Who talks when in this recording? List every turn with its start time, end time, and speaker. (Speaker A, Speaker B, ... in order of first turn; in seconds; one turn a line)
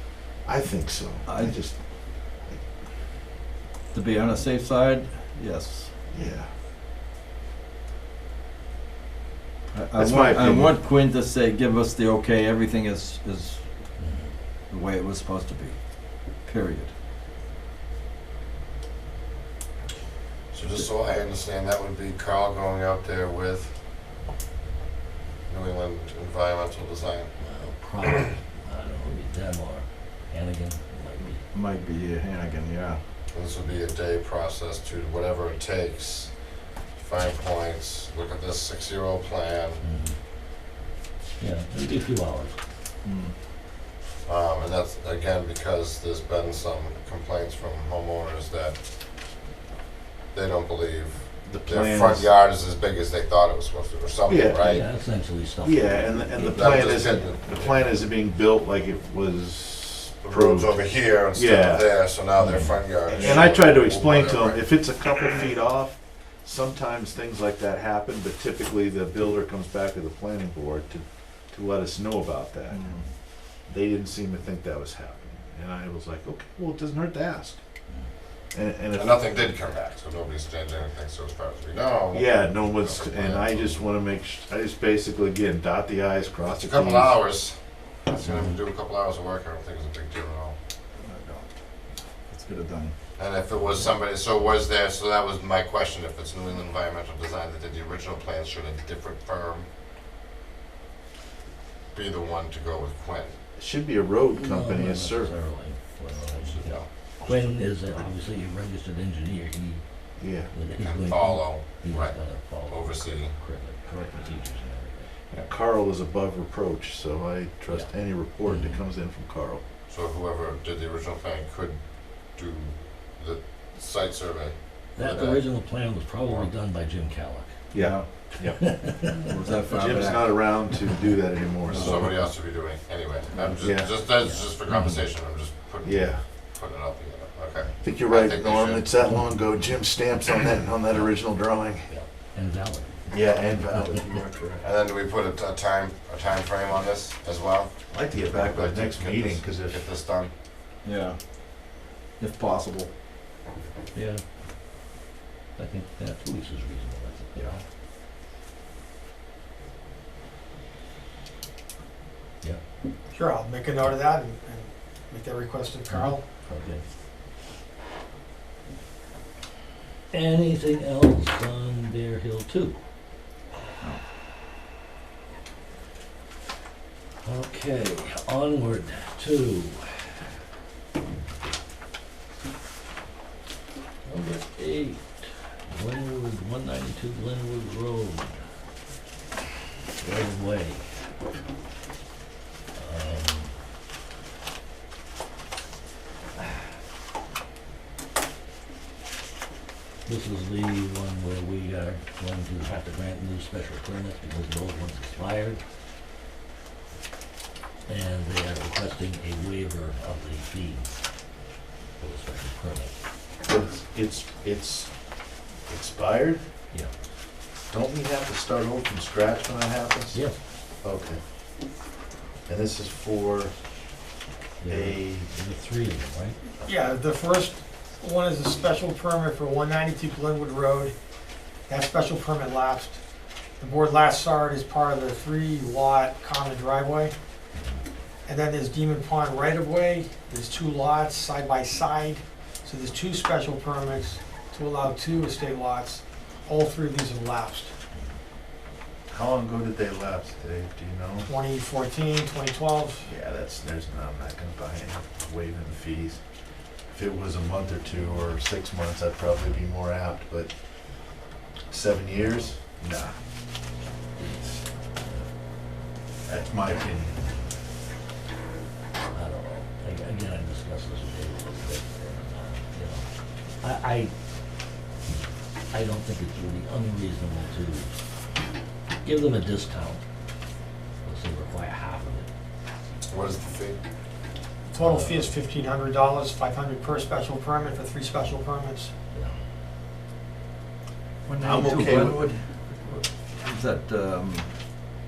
Speaker A: 0.5-2.6
Speaker B: 1.3-1.5
Speaker B: 3.9-5.9
Speaker A: 6.1-6.5
Speaker B: 9.7-14.0
Speaker A: 10.0-10.8
Speaker C: 14.0-14.3
Speaker B: 14.7-16.9
Speaker D: 20.5-23.7
Speaker D: 25.5-27.3
Speaker C: 27.4-31.4
Speaker B: 31.5-33.0
Speaker D: 33.3-39.8
Speaker C: 39.8-40.2
Speaker C: 41.4-42.6
Speaker B: 43.0-43.4
Speaker D: 44.2-48.8
Speaker D: 50.3-54.9
Speaker A: 51.5-52.3
Speaker A: 54.3-54.7
Speaker C: 54.6-56.9
Speaker A: 55.6-61.9
Speaker D: 56.4-58.0
Speaker D: 60.2-64.8
Speaker C: 62.4-62.8
Speaker A: 63.1-73.0
Speaker B: 72.7-73.1
Speaker A: 73.7-77.6
Speaker A: 78.5-79.4
Speaker D: 78.9-83.8
Speaker A: 82.1-87.2
Speaker D: 86.5-90.6
Speaker C: 88.2-88.6
Speaker B: 91.0-91.5
Speaker B: 92.3-93.0
Speaker D: 93.2-99.7
Speaker D: 101.9-103.4
Speaker A: 103.6-105.3
Speaker C: 104.3-109.8
Speaker D: 106.4-106.8
Speaker A: 110.2-110.5
Speaker C: 110.5-115.1
Speaker D: 110.8-113.3
Speaker A: 115.3-119.6
Speaker C: 118.4-118.8
Speaker D: 119.9-125.6
Speaker C: 125.0-127.5
Speaker D: 126.2-126.5
Speaker A: 127.7-128.6
Speaker B: 127.8-128.1
Speaker C: 128.4-129.3
Speaker B: 129.3-130.4
Speaker A: 129.7-132.2
Speaker B: 131.7-132.0
Speaker D: 131.7-138.9
Speaker C: 133.3-135.1
Speaker A: 133.6-133.9
Speaker A: 135.8-136.2
Speaker A: 137.8-141.9
Speaker C: 141.9-143.1
Speaker A: 143.1-144.2
Speaker B: 144.2-144.5
Speaker D: 144.6-150.3
Speaker A: 147.9-149.9
Speaker B: 150.8-151.7
Speaker B: 152.2-152.9
Speaker C: 153.9-154.2
Speaker C: 155.6-157.6
Speaker E: 163.1-166.2
Speaker C: 165.9-166.8
Speaker C: 170.1-172.8
Speaker C: 177.2-179.9
Speaker C: 184.1-188.4
Speaker C: 190.0-190.9
Speaker C: 192.8-193.5
Speaker C: 200.1-205.6
Speaker C: 207.9-210.9
Speaker C: 212.0-212.9
Speaker A: 213.4-214.9
Speaker A: 215.7-216.4
Speaker A: 217.7-220.2
Speaker A: 220.8-221.2
Speaker A: 222.5-223.5
Speaker C: 224.6-226.4
Speaker A: 224.7-225.3
Speaker E: 226.7-230.9
Speaker E: 231.7-233.0
Speaker E: 233.6-237.1
Speaker E: 238.3-247.7
Speaker A: 249.1-251.3
Speaker E: 251.3-253.1
Speaker A: 253.1-256.2
Speaker A: 256.9-260.5
Speaker A: 261.7-263.2
Speaker C: 262.2-262.5
Speaker A: 264.2-264.6
Speaker A: 266.3-267.2
Speaker C: 269.1-273.1
Speaker C: 273.6-274.1
Speaker C: 275.7-277.9
Speaker C: 279.0-280.0
Speaker C: 281.0-282.3
Speaker D: 283.1-283.8
Speaker E: 284.7-288.9
Speaker C: 284.8-285.3
Speaker B: 291.3-294.5
Speaker A: 291.4-292.4